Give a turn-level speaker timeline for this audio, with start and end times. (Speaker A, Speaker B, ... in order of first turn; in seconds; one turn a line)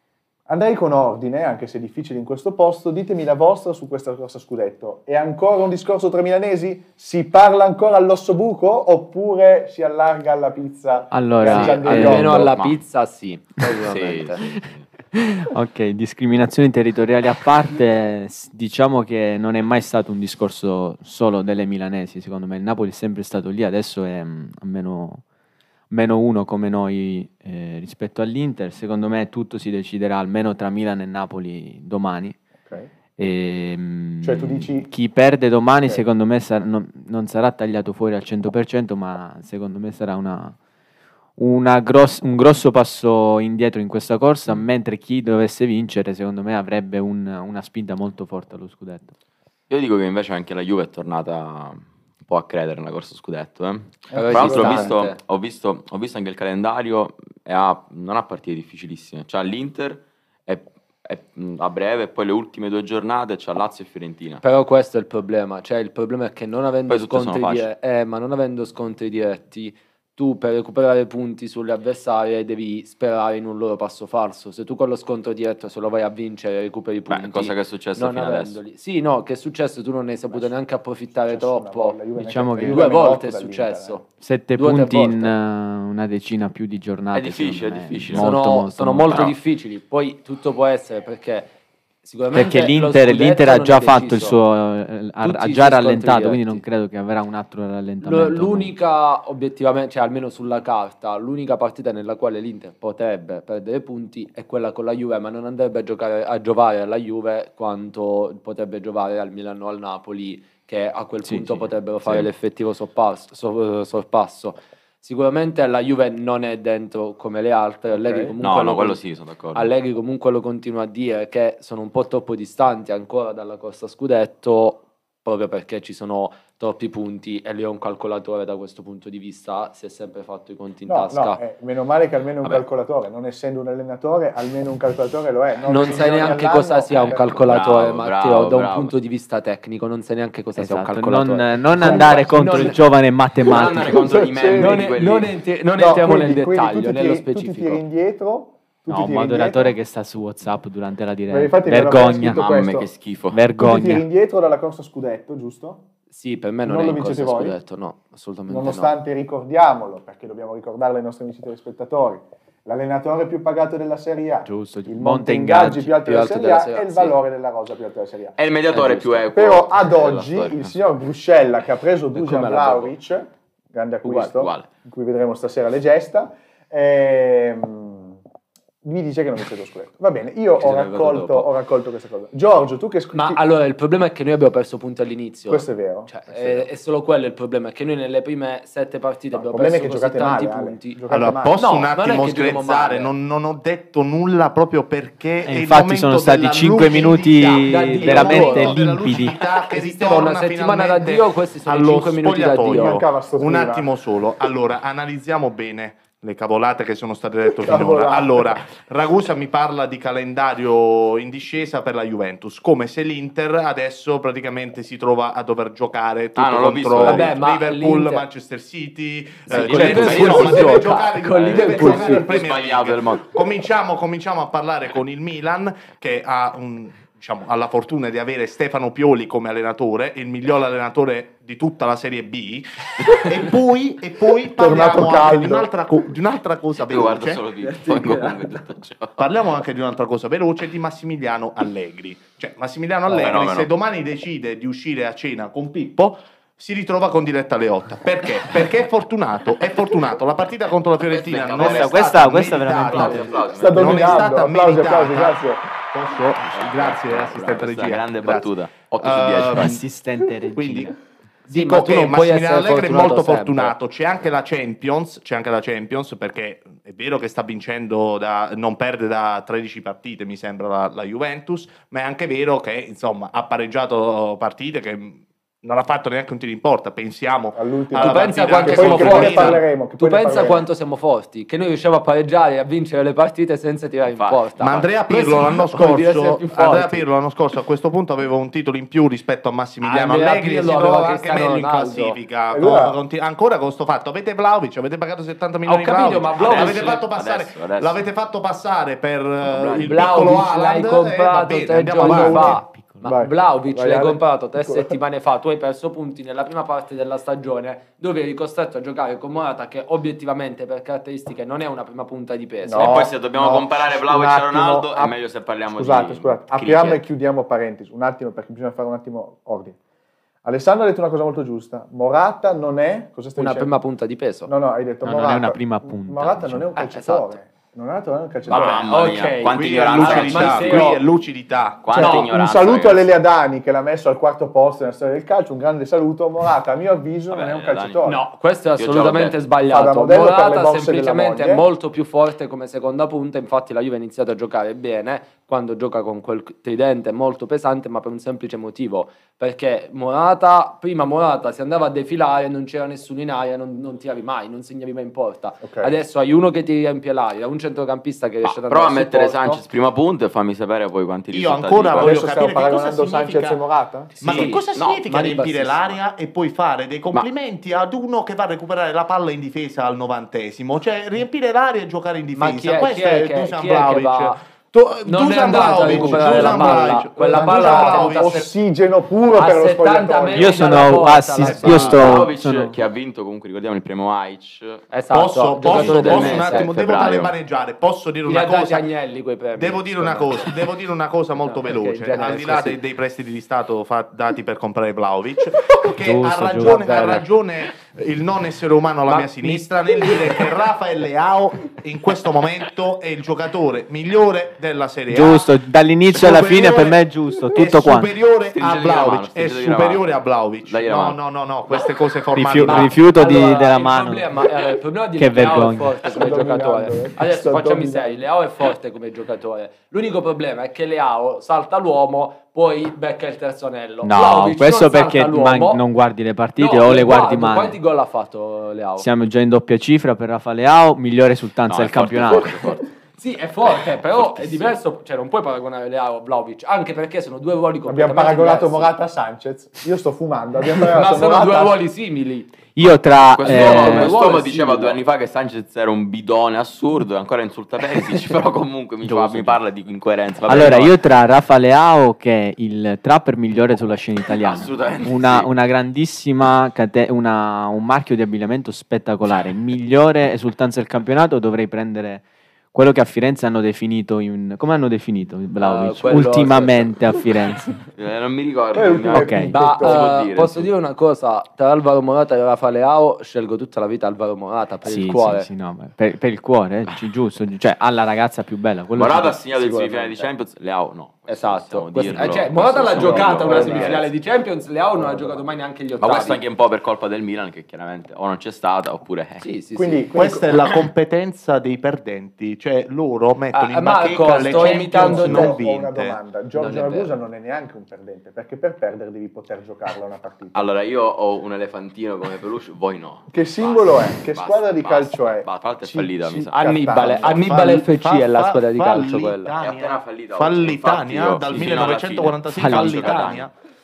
Speaker A: 0.5-12.5
Speaker B: 11.1-12.5
Speaker C: 11.4-14.6
Speaker D: 12.4-12.8
Speaker D: 13.9-14.8
Speaker B: 15.1-25.2
Speaker B: 25.9-32.4
Speaker B: 33.2-40.6
Speaker A: 34.2-34.9
Speaker B: 41.4-49.1
Speaker D: 49.7-64.4
Speaker A: 54.1-55.0
Speaker C: 54.1-55.2
Speaker C: 64.4-82.0
Speaker D: 66.9-67.7
Speaker D: 77.1-78.6
Speaker A: 81.1-84.0
Speaker B: 82.2-83.0
Speaker C: 82.5-84.0
Speaker B: 84.2-89.2
Speaker C: 84.6-85.3
Speaker D: 87.1-88.3
Speaker C: 88.1-91.5
Speaker D: 89.1-89.3
Speaker C: 92.0-94.4
Speaker B: 92.3-98.7
Speaker C: 95.2-96.6
Speaker C: 98.0-119.0
Speaker B: 111.2-111.7
Speaker A: 117.9-118.3
Speaker D: 118.4-119.7
Speaker C: 119.5-131.4
Speaker A: 130.9-137.3
Speaker C: 135.7-142.8
Speaker D: 136.9-138.9
Speaker B: 140.6-144.2
Speaker A: 141.8-142.7
Speaker D: 143.4-145.3
Speaker A: 143.5-145.0
Speaker C: 144.6-147.8
Speaker A: 145.8-149.8
Speaker B: 148.9-152.4
Speaker A: 151.3-152.9
Speaker D: 152.1-153.4
Speaker B: 153.3-154.0
Speaker A: 153.6-155.8
Speaker C: 156.1-159.0
Speaker A: 156.7-157.6
Speaker A: 158.5-168.4
Speaker B: 164.4-165.9
Speaker C: 166.1-167.2
Speaker D: 168.4-170.7
Speaker C: 168.7-169.2
Speaker A: 169.3-178.2
Speaker C: 172.1-172.9
Speaker D: 174.0-174.7
Speaker A: 178.8-183.4
Speaker D: 180.6-181.5
Speaker C: 183.1-191.0
Speaker A: 185.5-186.7
Speaker A: 189.3-191.6
Speaker E: 191.1-238.2
Speaker C: 191.6-193.1
Speaker B: 195.4-199.4
Speaker C: 197.6-198.8
Speaker C: 199.7-203.0
Speaker A: 202.7-203.9
Speaker A: 207.6-208.5
Speaker D: 216.4-217.4
Speaker C: 217.0-218.2
Speaker D: 219.5-223.3
Speaker C: 219.5-222.2
Speaker B: 219.6-220.6
Speaker A: 234.5-235.7
Speaker D: 236.8-239.2
Speaker E: 239.2-259.8
Speaker D: 243.1-243.7
Speaker D: 251.0-252.0
Speaker B: 251.6-253.4
Speaker D: 252.8-254.2
Speaker A: 253.5-255.6
Speaker D: 256.5-259.8
Speaker B: 259.5-261.0
Speaker E: 260.5-260.9
Speaker E: 261.5-279.6
Speaker C: 261.5-263.8
Speaker A: 277.6-280.7
Speaker C: 278.0-287.1
Speaker D: 284.1-284.9
Speaker E: 284.6-302.6
Speaker C: 289.8-292.2
Speaker A: 292.5-293.0
Speaker C: 295.6-297.1
Speaker D: 296.4-298.0
Speaker D: 299.4-300.0
Speaker C: 299.8-313.1
Speaker A: 302.0-305.0
Speaker B: 302.7-303.0
Speaker A: 312.6-315.2
Speaker D: 312.8-317.0
Speaker A: 315.7-319.8
Speaker A: 320.4-323.7
Speaker C: 323.4-324.5
Speaker A: 324.5-328.9
Speaker B: 325.0-326.7
Speaker C: 326.8-327.4
Speaker D: 328.5-330.9
Speaker E: 328.6-328.9
Speaker C: 328.6-331.0
Speaker E: 329.4-332.1
Speaker D: 331.8-333.1
Speaker A: 331.9-338.2
Speaker C: 332.0-332.2
Speaker D: 337.3-338.1
Speaker C: 338.1-359.6
Speaker D: 338.8-339.4
Speaker A: 339.7-341.7
Speaker A: 355.6-355.9
Speaker D: 358.4-362.2
Speaker E: 361.3-363.6
Speaker A: 361.9-364.5
Speaker C: 364.1-365.9
Speaker E: 364.2-378.4
Speaker D: 364.3-365.9
Speaker C: 372.4-374.4
Speaker C: 375.1-378.5
Speaker A: 375.4-380.7
Speaker C: 379.3-382.2
Speaker B: 380.4-382.8
Speaker E: 381.4-382.2
Speaker D: 381.7-384.8
Speaker C: 384.9-386.7
Speaker E: 385.1-388.9
Speaker D: 385.7-387.3
Speaker C: 388.2-390.5
Speaker E: 389.6-405.5
Speaker C: 391.4-392.8
Speaker B: 396.0-397.2
Speaker C: 396.6-397.3
Speaker C: 399.1-400.3
Speaker B: 405.1-408.1
Speaker E: 406.1-413.0
Speaker D: 408.5-410.1
Speaker D: 410.7-411.2
Speaker B: 412.3-414.4
Speaker C: 412.6-425.8
Speaker B: 415.2-416.0
Speaker A: 416.0-418.2
Speaker B: 424.0-427.8
Speaker C: 426.6-429.1
Speaker B: 429.0-432.7
Speaker D: 431.7-432.9
Speaker C: 433.2-438.9
Speaker D: 434.1-434.8
Speaker A: 437.9-441.8
Speaker C: 440.8-442.5
Speaker B: 442.8-444.2
Speaker D: 442.8-451.0
Speaker C: 443.4-445.0
Speaker B: 449.0-449.6
Speaker B: 450.5-467.8
Speaker D: 454.3-455.5
Speaker C: 465.6-467.0
Speaker D: 467.9-470.7
Speaker A: 468.7-470.1
Speaker B: 469.1-469.6
Speaker C: 469.5-475.5
Speaker B: 474.8-479.4
Speaker D: 478.9-484.1
Speaker C: 481.3-486.4
Speaker B: 482.1-482.5
Speaker A: 482.9-484.1
Speaker A: 485.0-485.5
Speaker D: 486.0-489.4
Speaker C: 489.4-490.1
Speaker A: 489.8-490.6
Speaker E: 490.1-496.2
Speaker C: 493.5-495.6
Speaker A: 494.4-500.7
Speaker C: 496.6-497.1
Speaker D: 500.5-506.5
Speaker A: 503.3-507.4
Speaker C: 506.5-509.5
Speaker E: 507.0-513.5
Speaker D: 509.6-513.5
Speaker B: 512.5-513.2